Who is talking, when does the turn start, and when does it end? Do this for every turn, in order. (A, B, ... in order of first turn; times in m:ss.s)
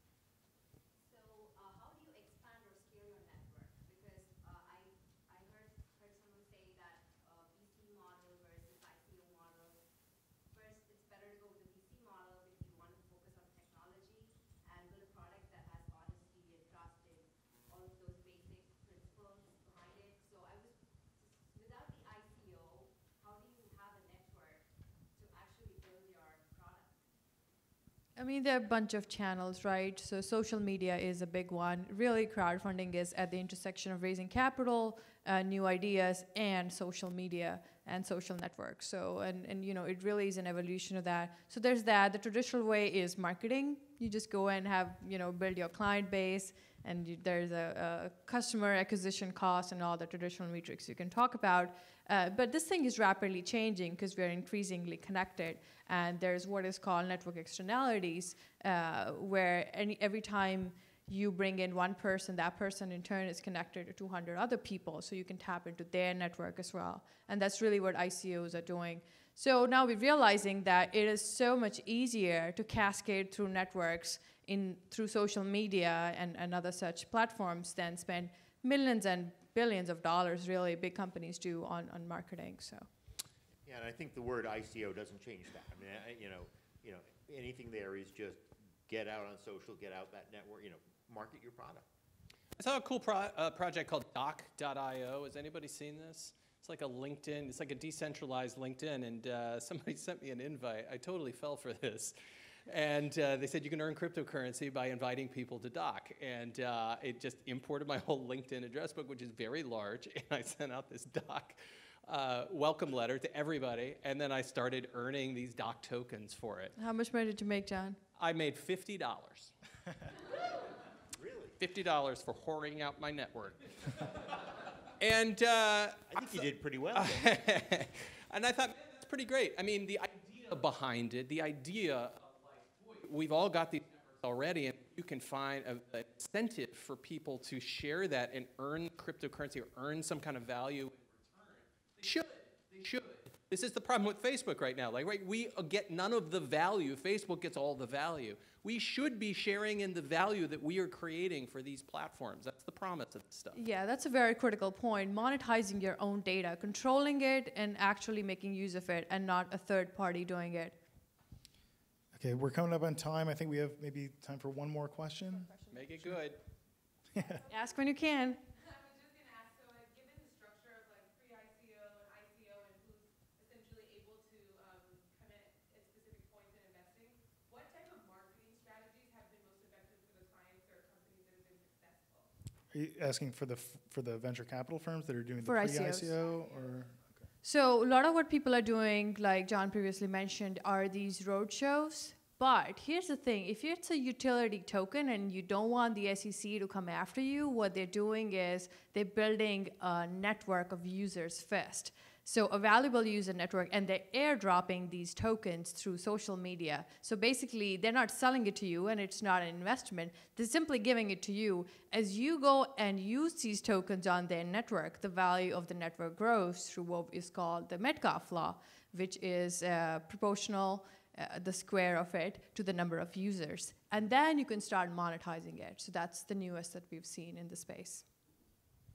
0:01.0-0:09.8 A
0:10.5-0:27.0 A
0:28.2-1:22.9 B
1:23.6-1:31.9 C
1:32.6-1:56.7 D
1:56.8-1:58.0 B
1:58.2-1:59.5 D
2:01.1-2:01.6 C
2:01.6-2:04.2 D
2:05.0-2:33.6 D
2:06.1-2:07.3 C
2:33.5-2:40.8 B
2:42.1-2:46.2 E
2:45.7-2:46.4 D
2:47.1-2:47.4 E
2:47.3-2:47.9 F
2:47.5-2:48.4 B
2:48.5-3:02.3 F
3:02.7-3:07.2 E
3:05.4-3:06.2 B
3:07.4-3:48.0 B